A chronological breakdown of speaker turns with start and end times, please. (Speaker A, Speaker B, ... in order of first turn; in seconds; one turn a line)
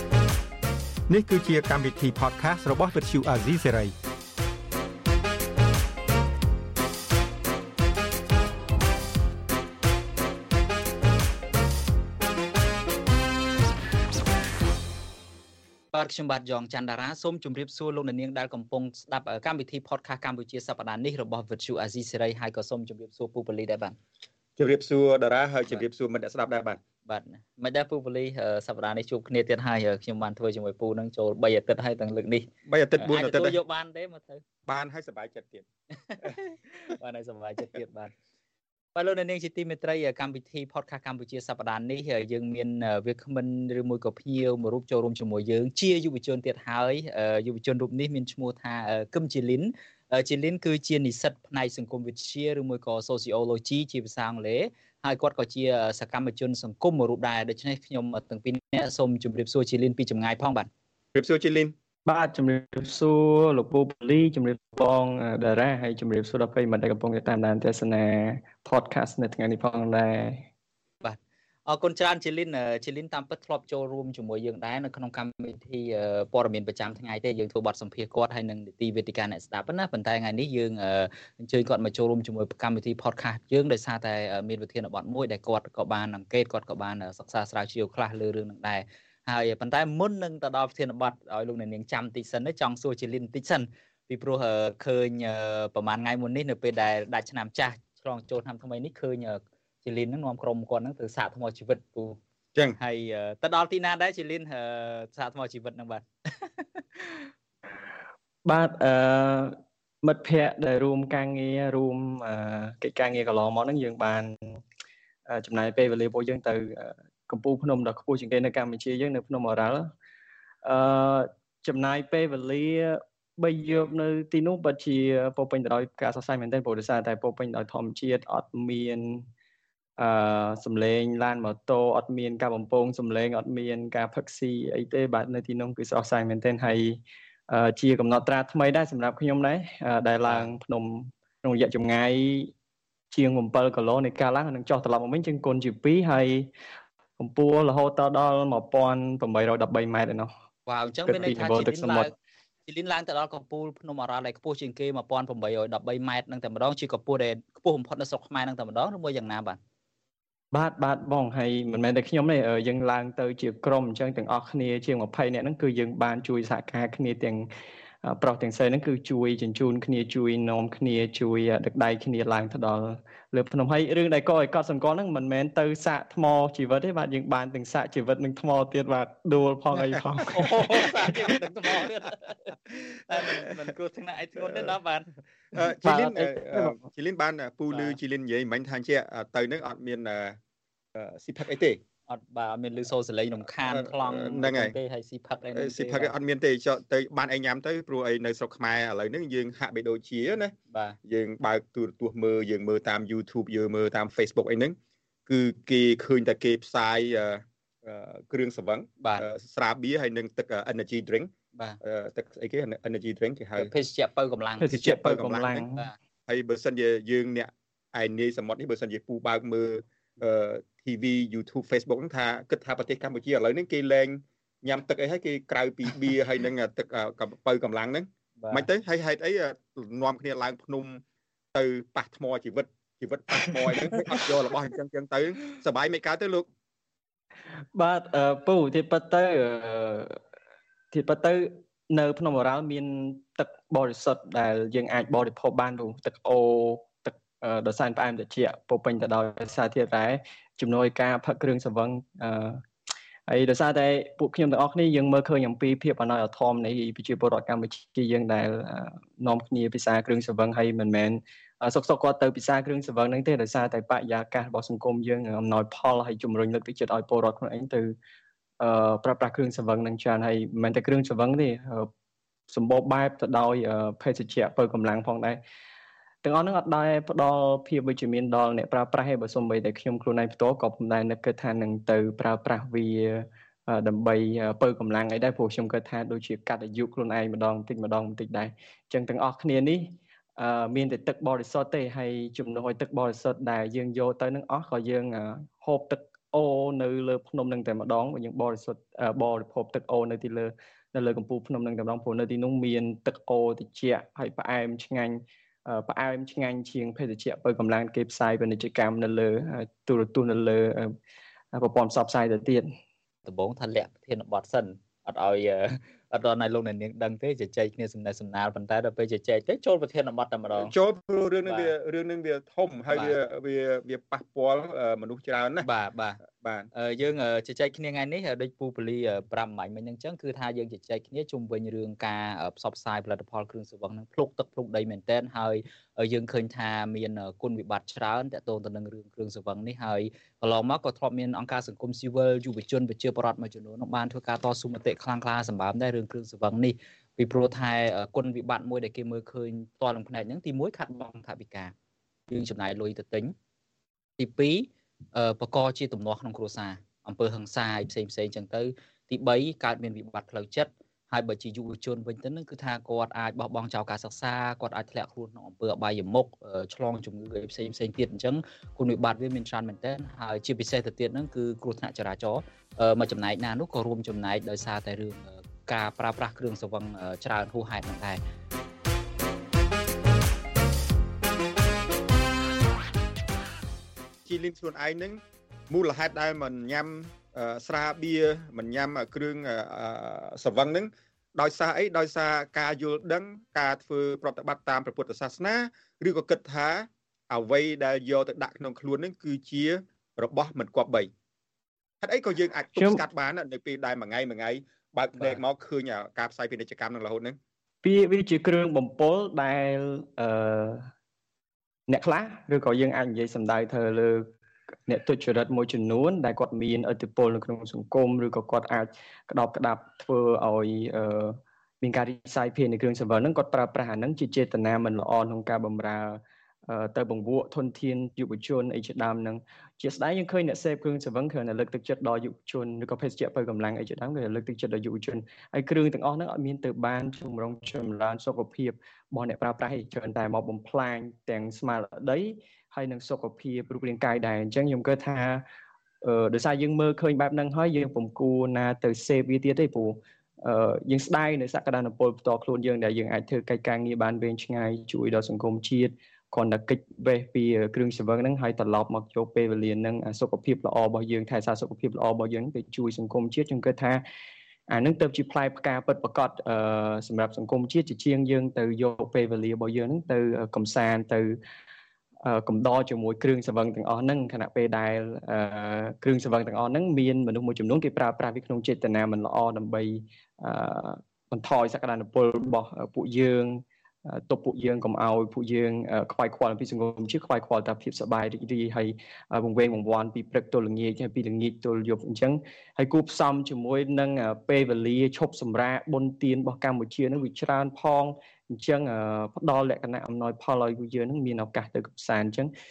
Speaker A: 1.1-3.9
Speaker B: 15.9-24.0
Speaker A: 24.6-26.8
Speaker B: 27.0-34.4
Speaker A: 32.7-33.6
Speaker A: 34.7-35.7
Speaker B: 36.0-38.1
Speaker B: 38.9-60.7
Speaker A: 61.1-61.7
Speaker C: 62.0-70.5
Speaker B: 71.0-102.2
Speaker B: 102.8-107.3
Speaker C: 108.4-114.6
Speaker C: 115.2-119.9
Speaker C: 120.6-129.2
Speaker C: 130.0-142.5
Speaker B: 140.2-140.5
Speaker C: 143.1-146.5
Speaker C: 147.2-150.3
Speaker B: 150.7-152.1
Speaker C: 151.1-152.1
Speaker B: 152.7-159.6
Speaker C: 160.5-167.5
Speaker C: 168.0-181.3
Speaker A: 179.8-181.4
Speaker B: 180.2-185.1
Speaker A: 183.2-183.5
Speaker A: 184.4-184.7
Speaker A: 185.5-190.4
Speaker C: 185.8-186.8
Speaker B: 187.7-188.0
Speaker A: 190.9-191.8
Speaker B: 192.1-196.2
Speaker A: 193.7-194.8
Speaker A: 195.5-200.5
Speaker B: 200.7-201.0
Speaker A: 201.0-211.3
Speaker B: 209.0-209.2
Speaker B: 211.5-211.8
Speaker A: 211.8-213.7
Speaker B: 213.6-215.1
Speaker C: 214.6-215.9
Speaker A: 214.7-215.6
Speaker B: 215.6-215.9
Speaker A: 216.3-231.0
Speaker B: 228.4-228.7
Speaker A: 231.5-236.5
Speaker C: 233.5-234.0
Speaker C: 237.8-240.2
Speaker C: 240.9-252.6
Speaker C: 253.3-267.9
Speaker C: 268.6-271.9
Speaker C: 272.5-275.4
Speaker C: 276.2-310.9
Speaker C: 311.5-312.7
Speaker B: 313.2-320.7
Speaker A: 320.5-325.7
Speaker B: 321.4-321.7
Speaker B: 325.6-326.2
Speaker A: 326.3-326.7
Speaker B: 326.7-351.7
Speaker B: 352.3-353.3
Speaker B: 354.2-378.2
Speaker A: 384.2-401.1
Speaker A: 402.0-407.4
Speaker C: 402.8-403.0
Speaker C: 407.8-410.9
Speaker C: 411.9-414.3
Speaker C: 414.9-445.4
Speaker C: 446.0-464.0
Speaker C: 464.7-471.4
Speaker C: 472.2-502.5